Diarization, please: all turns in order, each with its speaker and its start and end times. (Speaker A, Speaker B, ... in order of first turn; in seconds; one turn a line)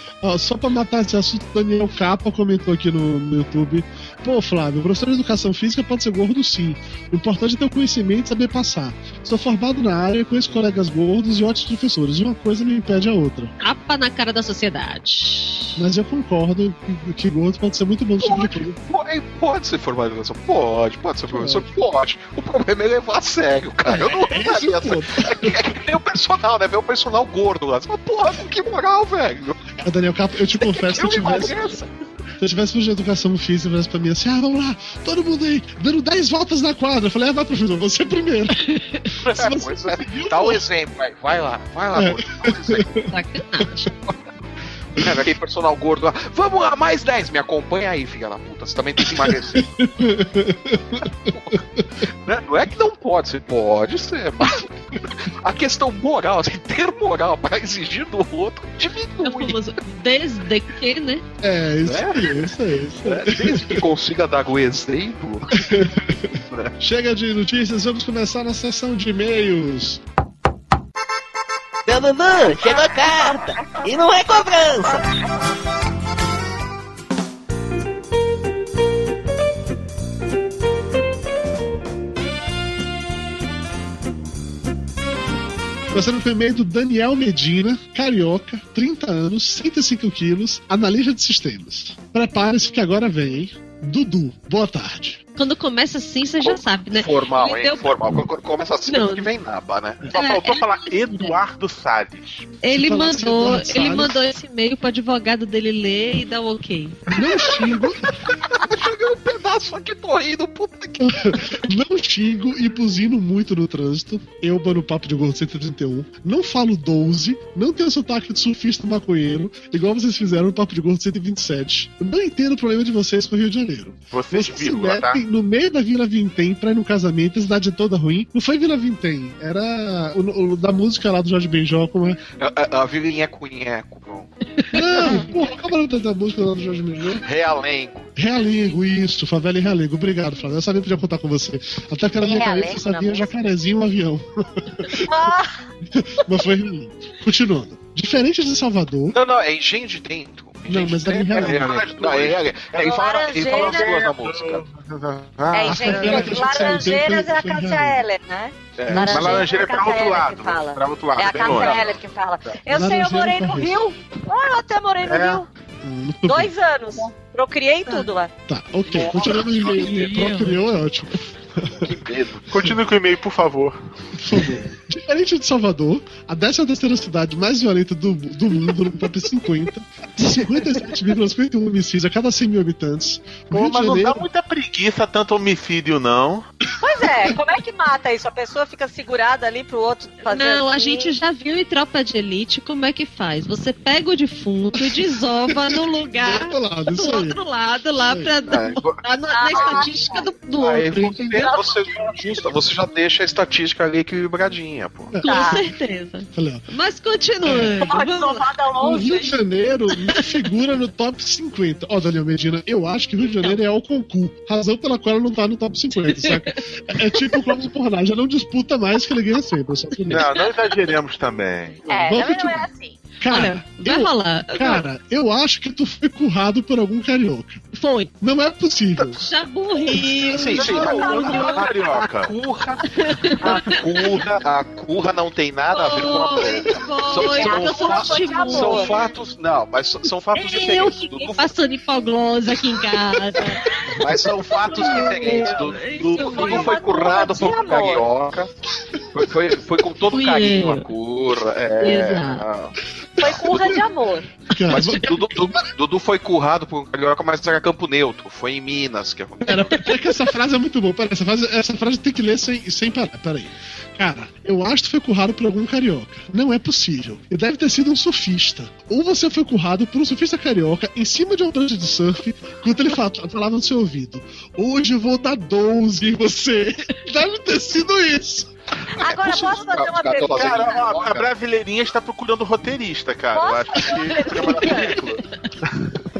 Speaker A: 0.2-13.5
Speaker B: 13.6-15.8
Speaker A: 15.8-18.8
Speaker C: 18.2-29.6
Speaker A: 21.3-21.7
Speaker A: 23.9-25.8
Speaker A: 29.8-31.6
Speaker C: 30.7-31.9
Speaker A: 32.4-38.7
Speaker B: 38.7-39.0
Speaker C: 39.2-43.0
Speaker A: 39.3-40.6
Speaker A: 41.9-43.1
Speaker B: 43.0-43.9
Speaker C: 44.9-49.6
Speaker A: 49.0-51.1
Speaker C: 51.3-51.6
Speaker C: 52.2-59.6
Speaker B: 59.2-61.2
Speaker A: 61.4-63.8
Speaker C: 61.8-62.5
Speaker C: 63.0-66.7
Speaker A: 65.5-66.2
Speaker A: 66.8-70.0
Speaker D: 71.8-75.1
Speaker A: 85.9-95.2
Speaker B: 95.3-97.9
Speaker C: 96.3-100.0
Speaker B: 98.8-99.3
Speaker E: 100.1-102.5
Speaker B: 100.1-101.3
Speaker B: 102.6-107.1
Speaker A: 102.7-104.2
Speaker A: 107.1-108.1
Speaker C: 107.2-111.6
Speaker A: 111.0-132.2
Speaker E: 124.1-125.2
Speaker C: 132.4-134.3
Speaker B: 134.6-135.2
Speaker A: 134.7-137.2
Speaker C: 137.2-138.1
Speaker A: 138.2-145.1
Speaker F: 142.2-143.3
Speaker F: 144.9-145.5
Speaker A: 145.9-149.2
Speaker C: 149.1-154.6
Speaker A: 150.7-151.8
Speaker E: 151.3-152.5
Speaker F: 152.8-153.9
Speaker E: 153.4-156.6
Speaker F: 155.5-165.5
Speaker A: 155.7-158.0
Speaker C: 158.8-159.5
Speaker A: 158.9-159.3
Speaker E: 159.0-161.8
Speaker C: 161.4-161.9
Speaker A: 162.7-163.8
Speaker E: 165.1-165.4
Speaker A: 165.8-166.5
Speaker F: 166.2-168.3
Speaker A: 168.5-171.9
Speaker C: 168.9-170.1
Speaker B: 169.7-170.6
Speaker C: 171.8-172.7
Speaker E: 172.5-173.8
Speaker A: 174.1-184.3
Speaker B: 180.2-180.5
Speaker E: 183.5-186.5
Speaker F: 186.8-191.1
Speaker B: 190.2-201.4
Speaker A: 195.5-197.4
Speaker A: 198.0-198.4
Speaker C: 198.5-199.9
Speaker F: 199.3-200.3
Speaker C: 200.6-205.1
Speaker A: 200.9-201.2
Speaker F: 201.4-201.8
Speaker A: 205.1-205.6
Speaker B: 205.2-208.4
Speaker F: 205.2-205.6
Speaker A: 206.3-206.7
Speaker A: 207.4-207.7
Speaker F: 207.8-209.3
Speaker A: 208.8-220.3
Speaker B: 216.1-216.6
Speaker E: 220.1-221.8
Speaker F: 221.9-223.0
Speaker A: 221.9-222.7
Speaker A: 223.2-227.7
Speaker B: 223.3-224.8
Speaker B: 227.8-228.1
Speaker A: 228.2-229.2
Speaker B: 229.1-231.7
Speaker C: 230.2-241.6
Speaker E: 230.6-232.3
Speaker F: 230.6-231.5
Speaker B: 232.8-234.0
Speaker B: 235.7-239.1
Speaker F: 237.3-239.0
Speaker B: 240.3-243.6
Speaker C: 243.9-248.5
Speaker B: 244.6-246.8
Speaker F: 245.3-245.5
Speaker F: 246.2-248.1
Speaker C: 249.1-253.8
Speaker B: 250.1-250.8
Speaker B: 251.8-252.4
Speaker F: 253.2-254.3
Speaker A: 253.2-253.7
Speaker A: 254.5-255.6
Speaker C: 254.7-259.9
Speaker A: 259.5-278.5
Speaker F: 279.0-280.9
Speaker C: 279.0-281.3
Speaker E: 280.3-285.2
Speaker F: 283.3-285.0
Speaker B: 284.4-284.9